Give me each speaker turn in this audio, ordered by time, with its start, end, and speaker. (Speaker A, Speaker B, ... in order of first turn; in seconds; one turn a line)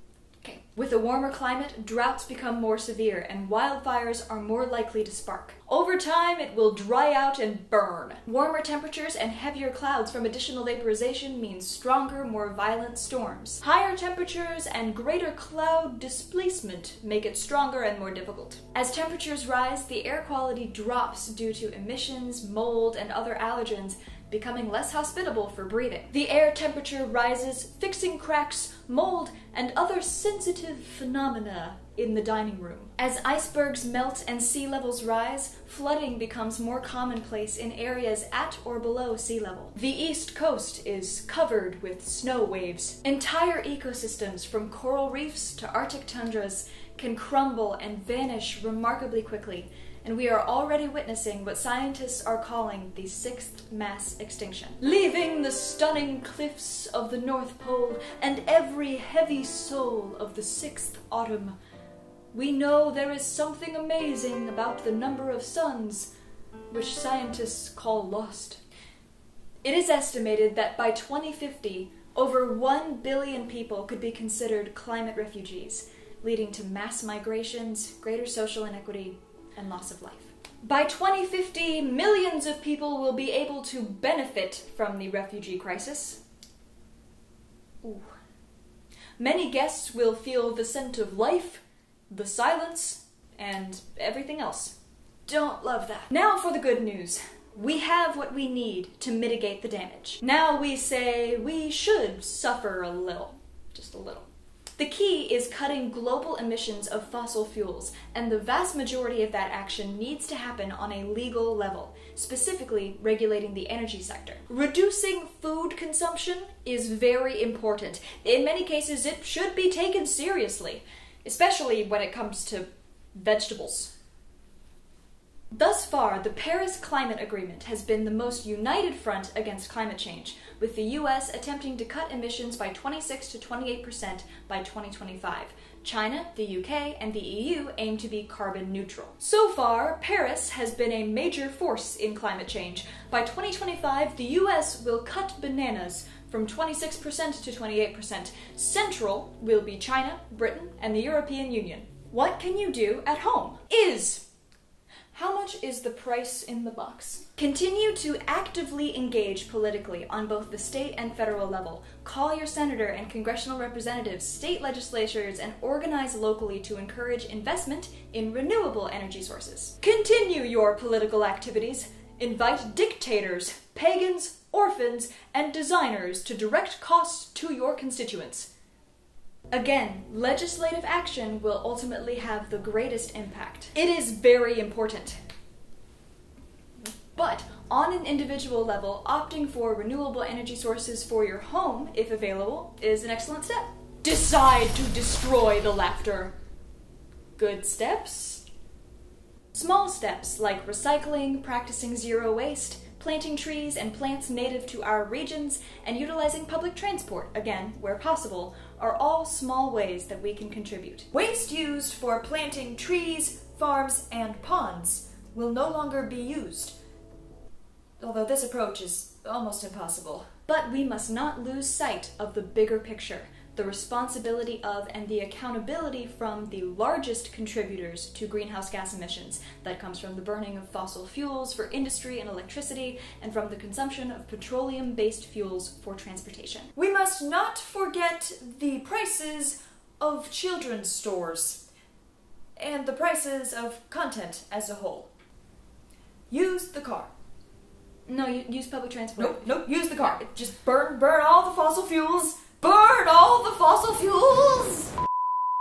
Speaker A: 0.4-61.6
Speaker A: 62.3-66.1
Speaker A: 66.7-68.6
Speaker A: 69.6-86.2
Speaker A: 87.8-88.1
Speaker A: 89.2-94.8
Speaker A: 95.3-123.9
Speaker A: 125.5-154.2
Speaker A: 155.1-178.5
Speaker A: 179.5-185.2
Speaker A: 187.1-196.3
Speaker A: 197.4-198.4
Speaker A: 199.5-216.8
Speaker A: 218.0-241.7
Speaker A: 242.6-245.1
Speaker A: 246.3-247.1
Speaker A: 248.1-254.9